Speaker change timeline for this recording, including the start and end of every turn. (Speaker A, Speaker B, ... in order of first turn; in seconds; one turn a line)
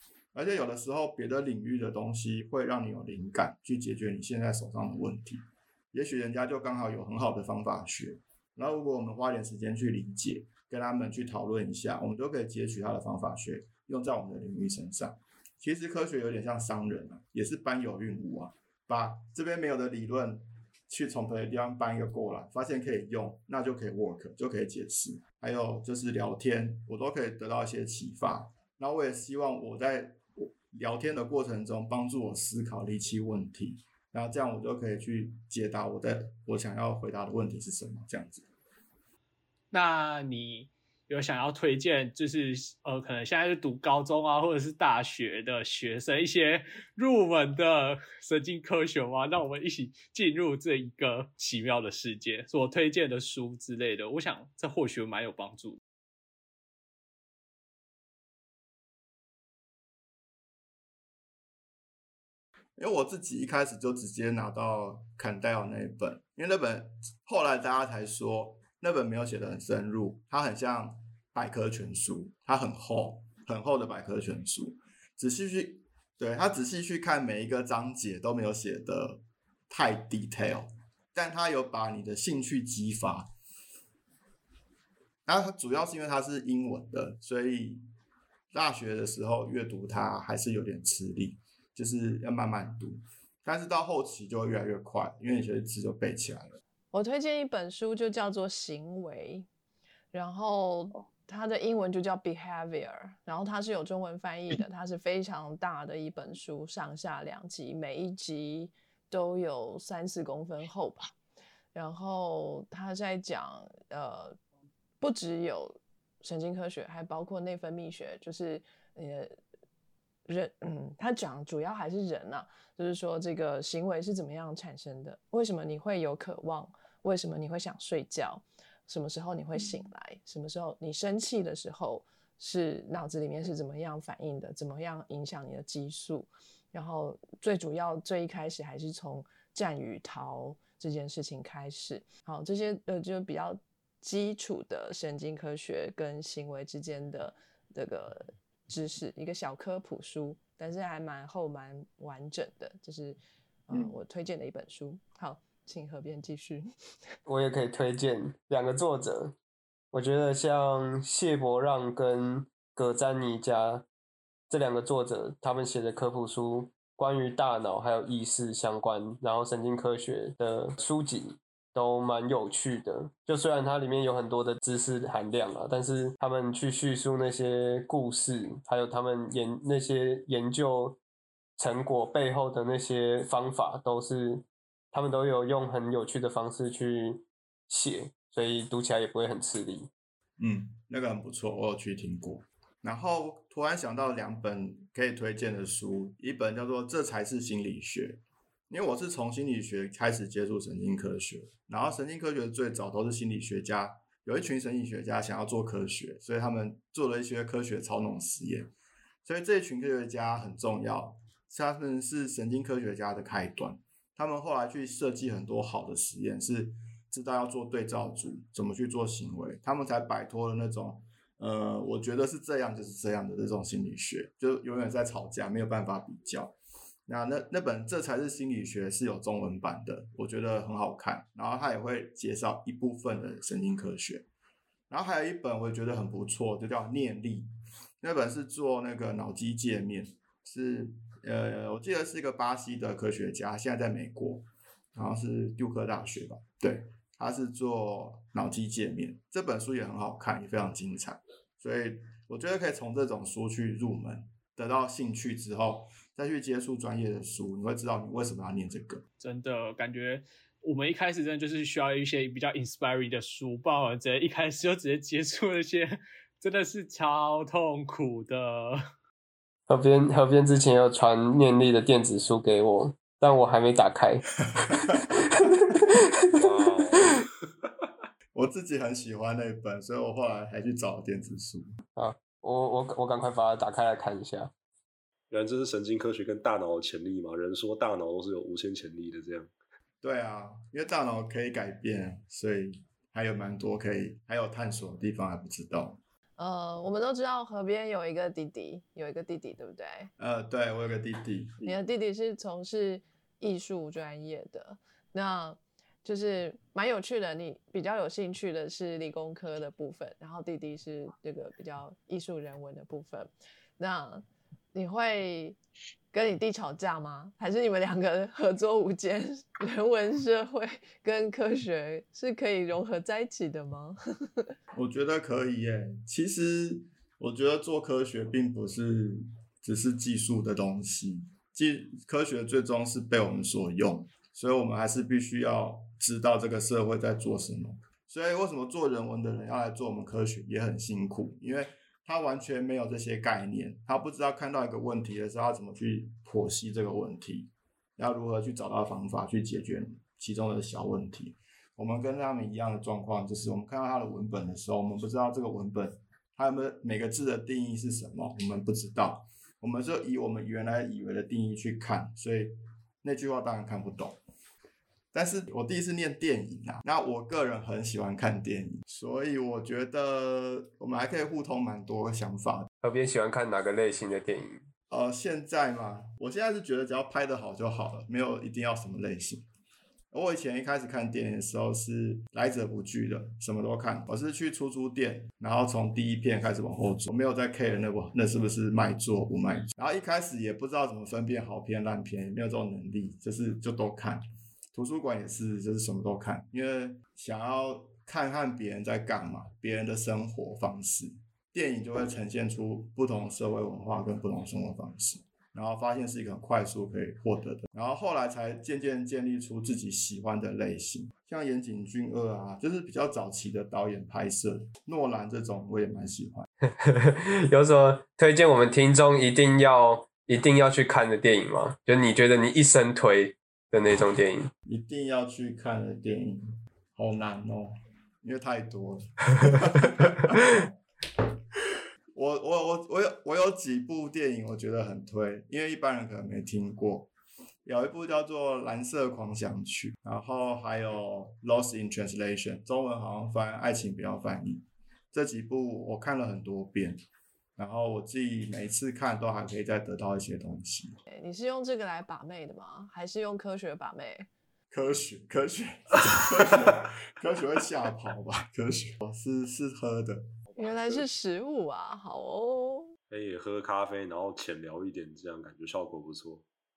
Speaker A: 0.3-38.5
Speaker B: 39.7-55.8
Speaker A: 62.8-83.3
Speaker A: 85.3-87.8
Speaker A: 88.5-96.6
Speaker C: 96.9-99.5
Speaker C: 100.1-111.1
Speaker C: 111.7-114.4
Speaker C: 115.0-119.4
Speaker C: 120.3-153.2
Speaker C: 153.7-156.7
Speaker D: 157.3-159.4
Speaker D: 159.9-163.9
Speaker D: 164.5-181.0
Speaker D: 181.6-189.9
Speaker A: 190.4-208.7
Speaker A: 209.2-226.5
Speaker A: 227.1-234.2
Speaker A: 234.9-237.5
Speaker A: 238.0-259.0
Speaker B: 259.2-268.8
Speaker D: 269.7-276.0
Speaker A: 274.6-275.1
Speaker E: 276.4-277.2
Speaker A: 278.3-281.7
Speaker D: 282.0-284.5
Speaker E: 285.3-289.5
Speaker A: 290.0-296.0
Speaker C: 296.4-300.1
Speaker A: 300.2-301.8
Speaker C: 301.6-315.6
Speaker C: 316.1-324.6
Speaker A: 324.7-364.2
Speaker A: 365.1-372.7
Speaker D: 372.8-374.6
Speaker A: 374.9-379.5
Speaker A: 380.1-416.5
Speaker D: 416.8-424.5
Speaker A: 424.7-426.4
Speaker A: 426.9-430.7
Speaker A: 432.1-437.1
Speaker A: 437.6-447.0
Speaker A: 447.6-451.0
Speaker C: 451.1-454.3
Speaker A: 454.7-460.3
Speaker C: 460.6-462.9
Speaker E: 463.1-466.4